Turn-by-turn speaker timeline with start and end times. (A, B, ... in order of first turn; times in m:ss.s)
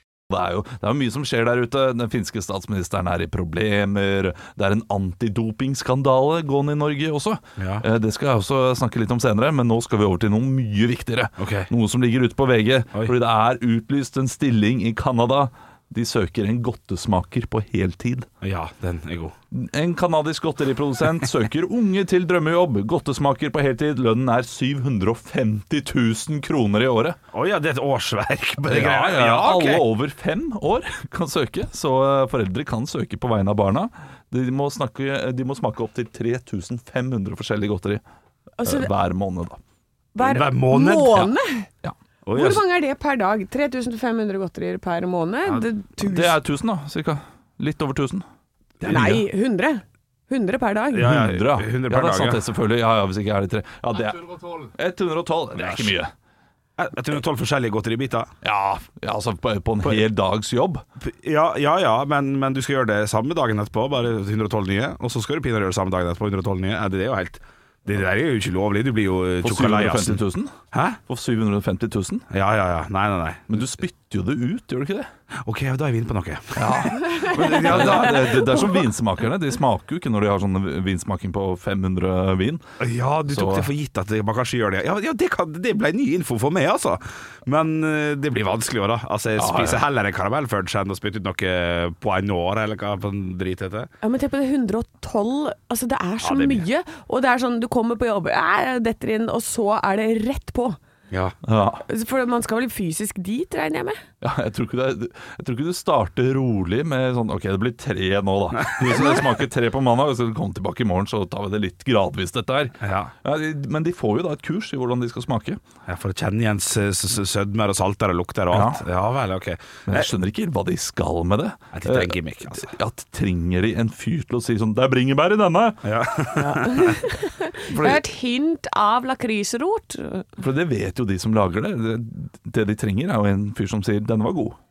0:00.3-0:18.3 A
0:07.6-0:07.8 B
0:11.4-0:11.7 B
0:18.4-0:19.3 B
0:19.5-0:27.2 A
0:27.3-0:29.8 B
0:28.7-0:38.0 A
0:38.6-0:38.9 C
0:38.6-0:39.6 A
0:40.1-0:41.7 C
0:40.2-0:41.2 B
0:42.2-0:42.6 B
0:42.3-0:46.4 C
0:46.0-0:48.2 A
0:48.8-0:49.2 A
0:48.8-0:51.1 C
0:50.9-0:52.4 B
0:51.0-0:56.1 A
0:55.6-0:55.9 B
0:56.8-0:58.3 B
0:58.4-1:00.8 A
1:01.0-1:10.2 B
1:09.4-1:10.5 A
1:10.7-1:11.0 B
1:11.1-1:12.2 A
1:12.3-1:13.5 B
1:13.5-1:15.1 A
1:15.4-1:18.4 B
1:16.6-1:22.6 A
1:17.1-1:17.3 C
1:22.8-1:33.9 B
1:23.3-1:23.7 A
1:29.4-1:29.8 A
1:34.0-1:40.8 C
1:36.2-1:36.6 B
1:41.1-1:41.4 B
1:41.4-1:41.8 A
1:41.8-1:44.0 C
1:44.2-1:55.6 A
1:48.7-1:49.0 B
1:52.8-1:53.1 B
1:55.9-2:00.1 B
1:58.5-1:58.8 A
1:59.9-2:05.9 A
2:01.7-2:02.7 B
2:05.8-2:06.9 B
2:06.4-2:10.3 C
2:07.7-2:08.0 A
2:10.4-2:14.6 A